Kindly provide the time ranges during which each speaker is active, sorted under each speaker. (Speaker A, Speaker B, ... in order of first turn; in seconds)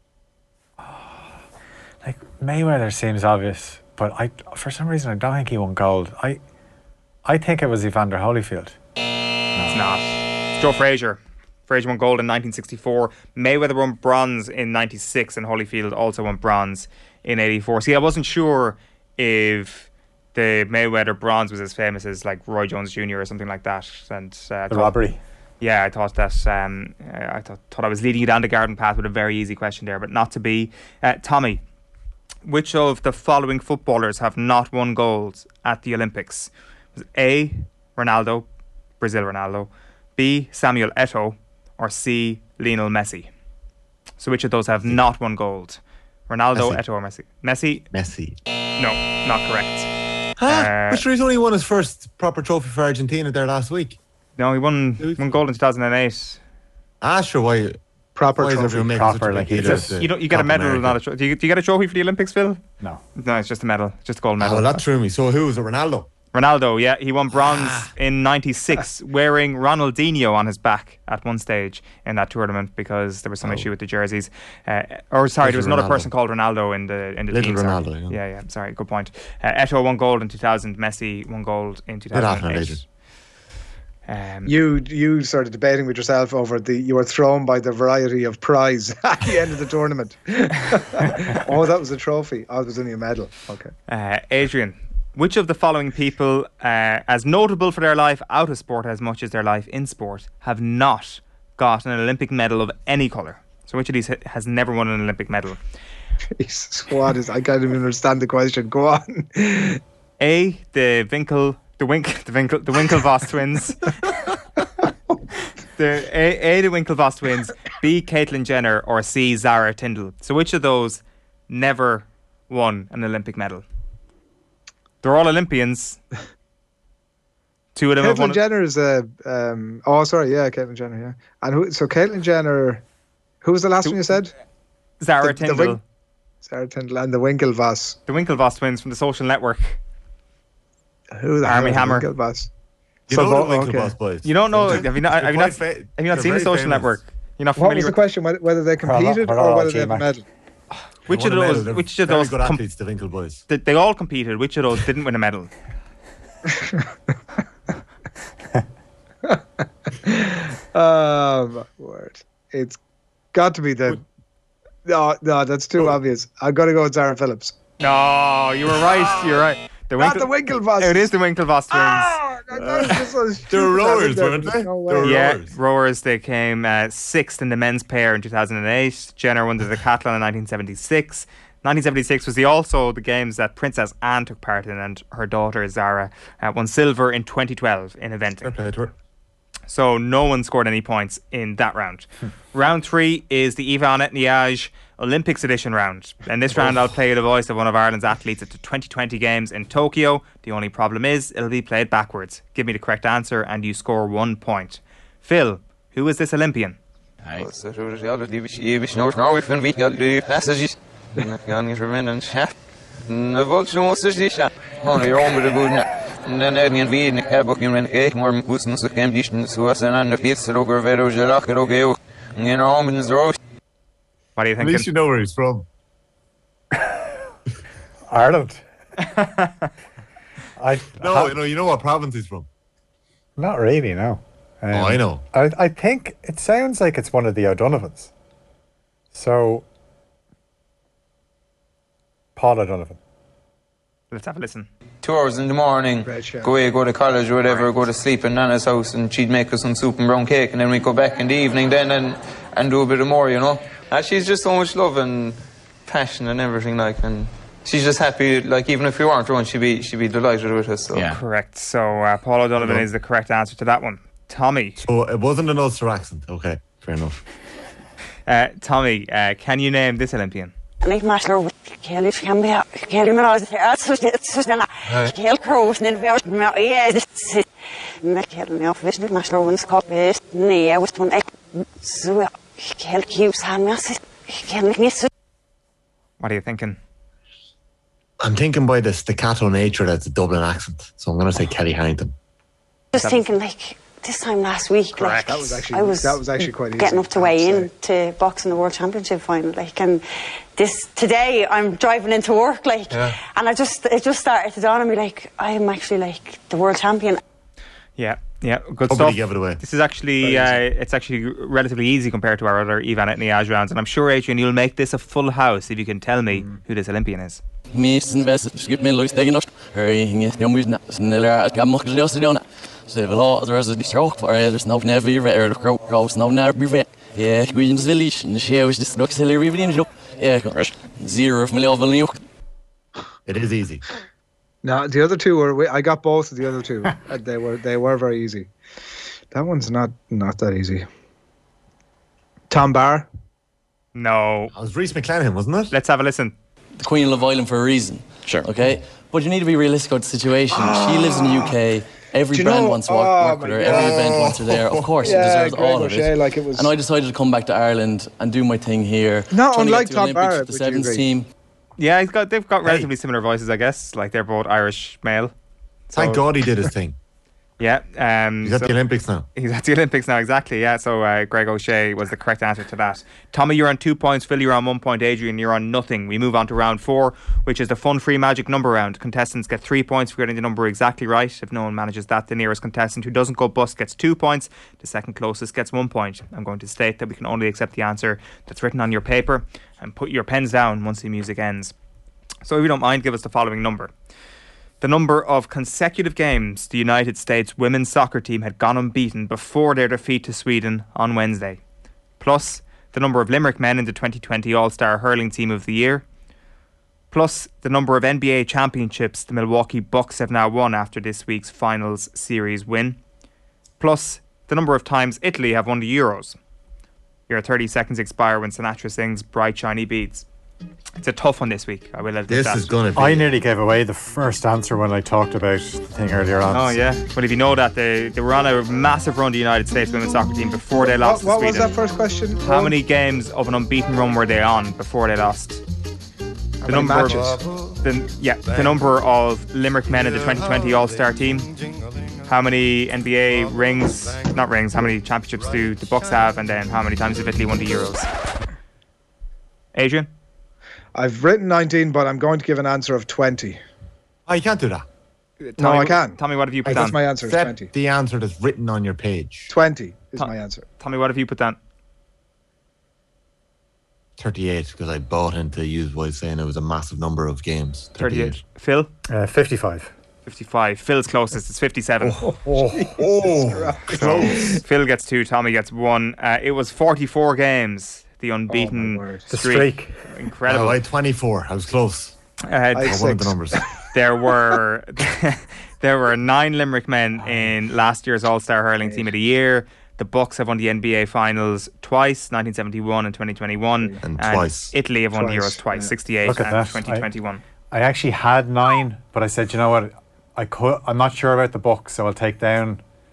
Speaker A: 0.8-1.2, 2.0-6.4, 7.3-8.8, 9.6-9.8, 24.7-25.2, 58.9-60.0, 148.8-150.1, 228.1-228.6, 230.6-231.4, 233.4-238.1, 239.1-239.7, 242.4-243.0, 422.9-426.8, 469.1-469.9, 472.1-472.9, 479.3-480.0, 487.2-487.6, 496.2-497.1, 497.7-502.8
Speaker B: 9.7-24.9, 25.6-31.6, 32.5-38.5, 39.0-43.3, 44.2-47.9, 48.8-49.9, 50.5-51.0, 54.4-56.4, 59.6-62.6, 63.2-64.8, 66.3-82.8, 84.1-84.5, 93.9-105.6, 110.2-113.9, 115.8-123.6, 125.0-126.0, 127.8-128.4, 135.0-135.8, 138.1-139.8, 141.4-142.1, 144.2-148.0, 150.7-152.6, 153.5-155.5, 167.8-172.2, 175.0-188.5, 189.7-206.8, 224.4-224.9, 229.2-229.5, 244.1-244.7, 261.1-264.8, 268.3-270.5, 286.2-286.8, 292.9-293.2, 295.0-295.5, 308.0-317.4, 343.9-344.5, 345.7-346.4, 361.8-365.3, 365.9-366.2, 367.6-368.7, 369.4-391.8, 392.4-393.9, 394.8-401.6, 402.2-406.0, 407.1-413.0, 413.8-416.4, 417.3-420.2, 421.0-422.7, 426.5-431.7, 432.4-435.6, 436.7-441.5, 442.3-448.1, 449.8-450.1, 455.4-457.0, 460.2-461.6, 468.0-468.9, 470.2-472.2, 473.9-480.8, 482.5-483.0, 483.9-497.4
Speaker C: 46.5-46.8, 47.9-48.4, 50.4-54.0, 55.0-55.4, 57.0-57.8, 58.4-61.0, 64.4-66.1, 67.5-67.9, 73.4-73.7, 75.4-76.1, 77.3-78.2, 82.1-82.8, 143.1-147.0, 151.1-153.4, 172.6-172.9, 173.5-175.6, 188.4-188.9, 224.6-225.7, 231.0-232.5, 234.7-235.2, 262.6-262.9, 264.8-267.2, 288.2-292.1, 308.9-309.6, 333.3-333.8, 344.5-345.8, 353.6-355.2, 362.6-362.9, 365.9-367.0, 368.4-369.3, 422.3-423.3, 454.3-454.9, 457.2-459.5, 464.2-468.4, 473.0-474.4, 480.5-482.1, 482.8-483.6, 494.0-494.8
Speaker D: 58.2-58.9, 84.5-93.7, 106.4-109.8, 128.0-132.8, 133.4-134.3, 135.2-135.8, 136.4-138.0, 141.1-142.5, 143.1-144.0, 147.6-150.2, 160.1-162.8, 163.3-164.0, 164.9-167.5, 170.0-171.1, 171.7-175.2, 246.0-246.6, 295.0-297.7, 334.6-338.5, 339.3-340.9, 342.5-343.1, 350.5-351.5, 352.3-353.9, 355.0-356.7, 359.3-361.1, 430.8-432.8, 436.6-437.4, 450.9-453.6, 455.6-457.7, 459.5-460.6, 472.4-474.6, 478.5-479.3, 482.8-483.6, 488.8-489.1, 495.1-495.9
Speaker E: 207.4-212.5, 213.1-223.3, 245.0-255.3, 255.9-260.9
Speaker F: 260.9-261.2, 317.7-332.2, 346.8-361.3
Speaker G: 270.8-277.4, 278.0-285.1, 292.9-300.0, 300.6-307.2